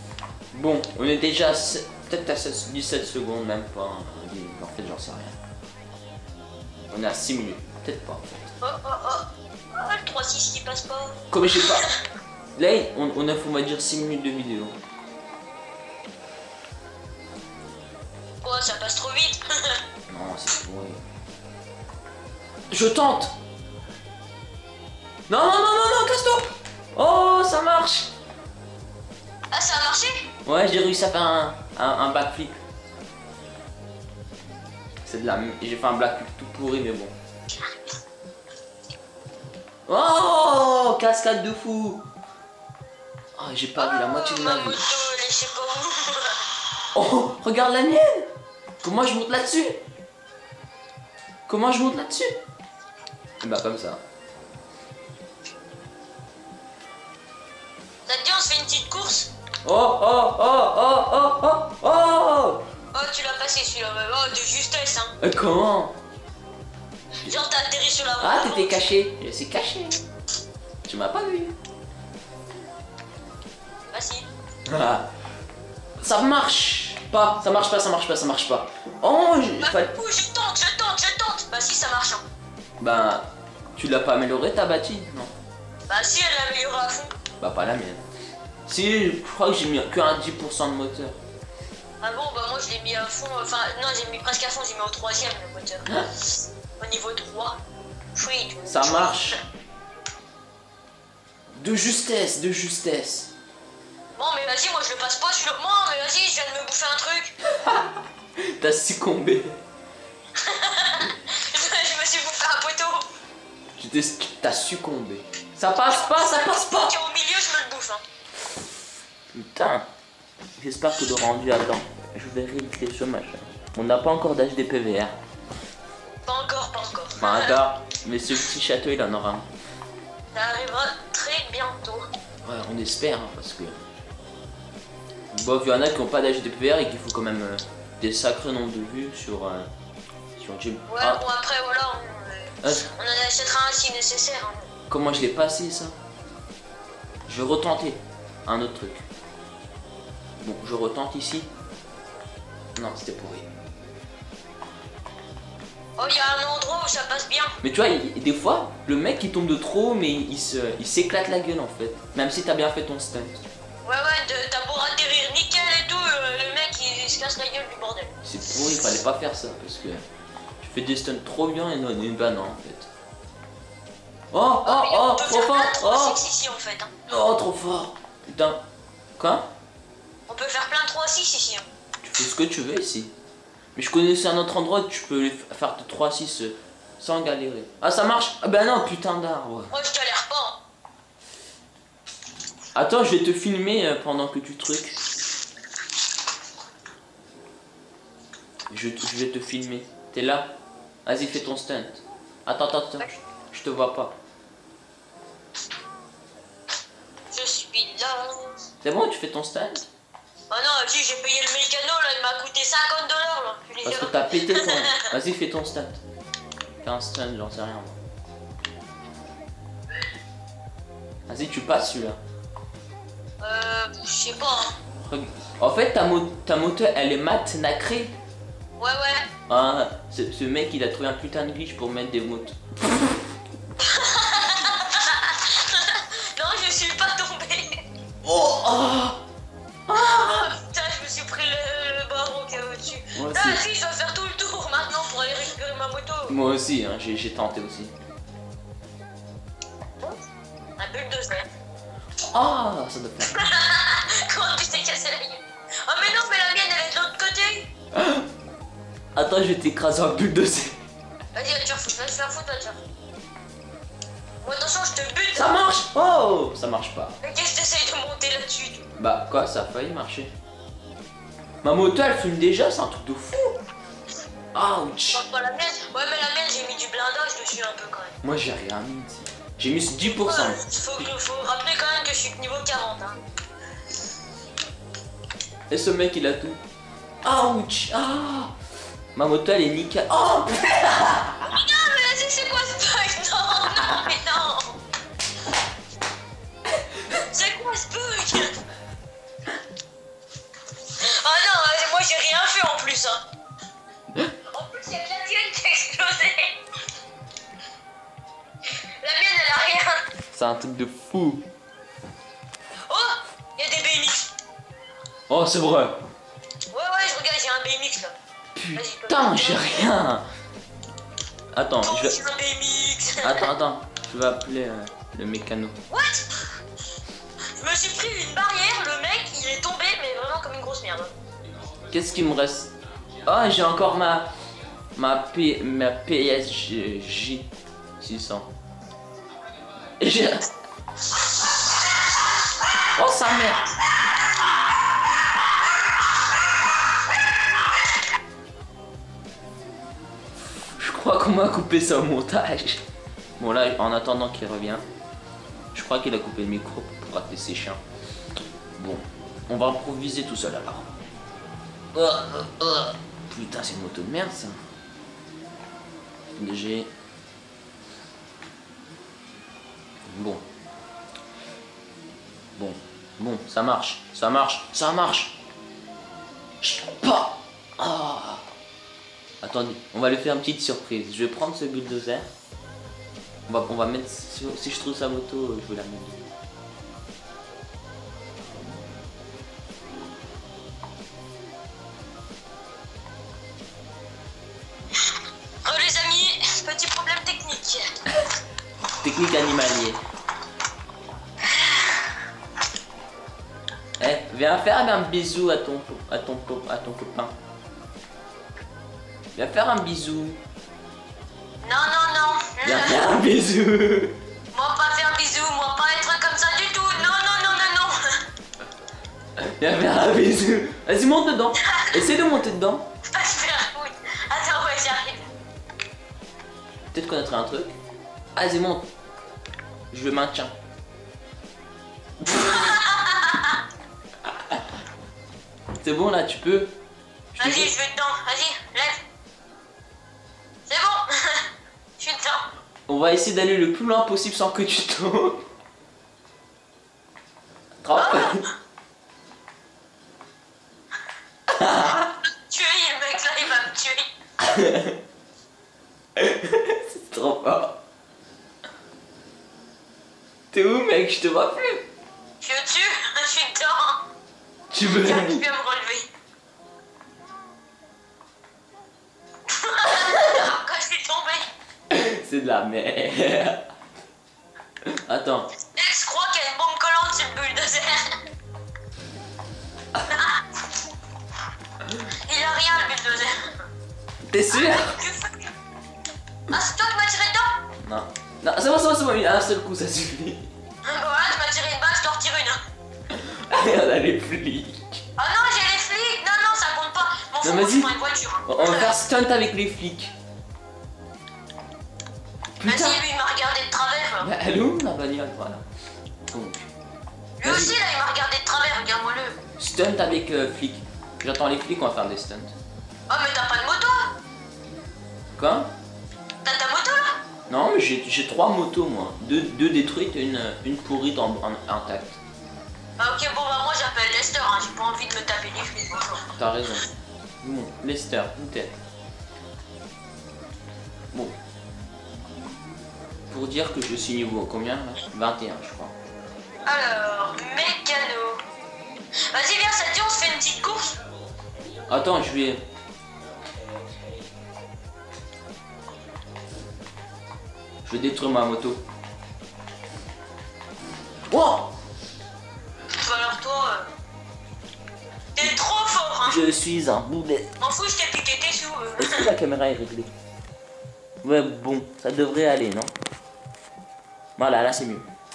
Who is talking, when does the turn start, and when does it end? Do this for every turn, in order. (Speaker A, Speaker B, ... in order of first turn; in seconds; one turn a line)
Speaker A: 0.5-5.4
Speaker A: 6.9-8.5
Speaker B: 8.6-12.0
Speaker A: 11.3-11.9
Speaker A: 12.6-14.7
Speaker B: 18.4-19.8
Speaker A: 20.1-21.0
Speaker A: 22.7-23.3
Speaker A: 25.3-28.1
Speaker B: 29.5-30.3
Speaker A: 30.4-32.6
Speaker A: 35.0-37.1
Speaker A: 39.9-42.0
Speaker A: 43.4-44.8
Speaker B: 43.8-46.5
Speaker A: 46.9-48.3
Speaker A: 48.8-49.8
Speaker A: 51.5-52.4
Speaker A: 53.4-54.0
Speaker B: 58.0-59.3
Speaker A: 59.6-62.6
Speaker B: 62.9-65.1
Speaker A: 65.2-65.9
Speaker B: 67.2-68.8
Speaker A: 68.2-70.0
Speaker A: 70.8-71.5
Speaker B: 73.9-74.3
Speaker A: 74.7-75.1
Speaker A: 76.0-79.9
Speaker B: 79.6-82.2
Speaker A: 82.8-85.3
Speaker B: 85.9-87.1
Speaker A: 87.4-88.0
Speaker A: 88.7-91.2
Speaker B: 92.0-97.6
Speaker B: 98.1-99.4
Speaker A: 98.7-99.4
Speaker A: 101.5-103.3
Speaker B: 104.2-107.3
Speaker A: 107.5-109.6
Speaker B: 110.3-113.0
Speaker A: 113.8-116.9
Speaker B: 115.9-118.0
Speaker A: 119.3-119.9
Speaker A: 120.6-125.1
Speaker B: 126.2-127.5
Speaker A: 127.2-129.4
Speaker B: 130.3-132.1
Speaker A: 132.4-133.8
Speaker A: 135.3-139.7
Speaker A: 140.3-141.2
Speaker B: 140.9-144.7
Speaker A: 144.9-145.9
Speaker A: 147.3-149.1
Speaker A: 150.4-151.5
Speaker A: 152.8-153.5
Speaker B: 156.0-157.5
Speaker A: 157.6-163.4
Speaker B: 163.8-168.1
Speaker A: 168.2-170.0
Speaker A: 170.6-172.9
Speaker A: 174.3-176.2
Speaker B: 174.6-176.9
Speaker A: 177.1-178.6
Speaker A: 179.2-179.4
Speaker B: 180.3-181.7
Speaker A: 182.0-183.1
Speaker A: 183.7-189.7
Speaker B: 189.7-190.6
Speaker A: 192.7-195.0
Speaker A: 198.7-200.5
Speaker A: 201.1-204.1
Speaker B: 207.3-208.6
Speaker A: 208.8-209.9
Speaker B: 210.5-214.9
Speaker A: 213.8-216.0
Speaker A: 216.8-218.0
Speaker A: 221.3-222.2
Speaker B: 223.4-224.7
Speaker A: 225.0-228.1
Speaker B: 228.8-229.3
Speaker A: 229.5-233.1
Speaker B: 233.8-237.8
Speaker A: 238.2-239.2
Speaker A: 239.9-240.5
Speaker B: 239.9-246.4
Speaker A: 243.1-243.6
Speaker A: 246.3-247.9
Speaker B: 250.8-251.5
Speaker A: 252.3-253.5
Speaker B: 253.3-257.7
Speaker A: 257.9-258.2
Speaker A: 259.1-260.8
Speaker B: 261.3-262.8
Speaker B: 264.4-265.5
Speaker A: 265.3-267.2
Speaker B: 267.2-268.9
Speaker A: 269.0-270.3
Speaker A: 271.6-273.6
Speaker A: 274.5-275.3
Speaker B: 275.1-278.1
Speaker A: 278.2-280.6
Speaker B: 280.0-283.2
Speaker A: 285.7-286.6
Speaker A: 287.2-288.5
Speaker A: 289.1-291.5
Speaker B: 291.4-294.8
Speaker B: 297.1-298.6
Speaker B: 300.9-303.2
Speaker B: 304.5-306.6
Speaker B: 308.7-310.1
Speaker A: 310.3-311.4
Speaker B: 312.9-314.3
Speaker A: 315.3-316.0
Speaker B: 316.7-318.1
Speaker A: 318.5-320.2
Speaker B: 318.7-319.7
Speaker A: 321.5-322.2
Speaker B: 321.8-323.5
Speaker A: 323.2-325.8
Speaker B: 325.9-326.3
Speaker B: 327.6-331.1
Speaker A: 331.9-332.7
Speaker A: 333.2-334.3
Speaker A: 334.9-337.5
Speaker A: 338.0-338.5
Speaker A: 340.0-340.4
Speaker A: 342.9-343.6
Speaker A: 350.8-352.8
Speaker A: 353.4-354.8
Speaker A: 355.7-357.8
Speaker A: 358.8-360.9
Speaker A: 361.9-364.6
Speaker A: 366.4-366.9
Speaker A: 370.1-370.4
Speaker A: 372.6-375.4
Speaker A: 376.6-378.4
Speaker A: 379.4-382.3
Speaker A: 383.5-386.3
Speaker B: 395.6-397.9
Speaker A: 399.0-400.0
Speaker B: 401.4-402.1
Speaker A: 404.0-407.3
Speaker A: 409.4-410.4
Speaker B: 411.6-413.0
Speaker A: 412.6-414.2
Speaker B: 414.5-418.2
Speaker A: 419.4-422.9
Speaker B: 421.6-422.0
Speaker B: 423.1-425.3
Speaker A: 426.9-427.7
Speaker A: 428.3-428.9
Speaker A: 429.9-430.5
Speaker B: 432.3-433.6
Speaker A: 432.3-432.6
Speaker A: 435.8-436.7
Speaker A: 437.3-437.7
Speaker B: 437.4-439.0
Speaker B: 440.7-442.5
Speaker A: 442.9-445.4
Speaker A: 447.8-448.4
Speaker B: 447.9-448.5
Speaker A: 451.5-452.1
Speaker B: 452.2-454.1
Speaker A: 454.4-455.0
Speaker A: 456.2-457.8
Speaker A: 460.5-461.8
Speaker B: 462.4-464.0
Speaker A: 464.7-465.4
Speaker B: 464.8-466.1
Speaker B: 469.4-471.5
Speaker A: 469.9-470.5
Speaker A: 471.9-473.6
Speaker A: 474.9-475.5
Speaker B: 475.7-478.2
Speaker B: 480.1-480.4
Speaker B: 482.1-483.6
Speaker A: 484.3-485.0
Speaker B: 484.5-485.5
Speaker B: 486.5-487.6
Speaker A: 487.8-490.5
Speaker B: 490.8-492.6
Speaker A: 493.1-495.0
Speaker B: 495.2-498.9
Speaker A: 497.4-497.9
Speaker A: 498.4-500.1
Speaker A: 502.6-503.0
Speaker B: 502.6-504.3
Speaker A: 504.2-505.6
Speaker A: 506.3-506.7
Speaker B: 507.4-509.4
Speaker A: 507.4-507.8
Speaker A: 509.6-512.5
Speaker B: 513.1-514.1
Speaker A: 515.4-515.7
Speaker B: 516.4-517.2
Speaker A: 517.5-522.2
Speaker B: 523.0-526.2
Speaker A: 526.3-526.9
Speaker A: 527.4-528.7
Speaker A: 533.3-535.9
Speaker B: 536.6-538.4
Speaker B: 539.3-541.0
Speaker A: 541.9-542.6
Speaker A: 547.9-548.8
Speaker A: 551.3-551.7
Speaker B: 552.9-553.9
Speaker B: 555.3-556.4
Speaker A: 556.2-557.5
Speaker B: 557.6-559.3
Speaker A: 559.0-560.1
Speaker A: 561.2-562.9
Speaker A: 564.4-565.1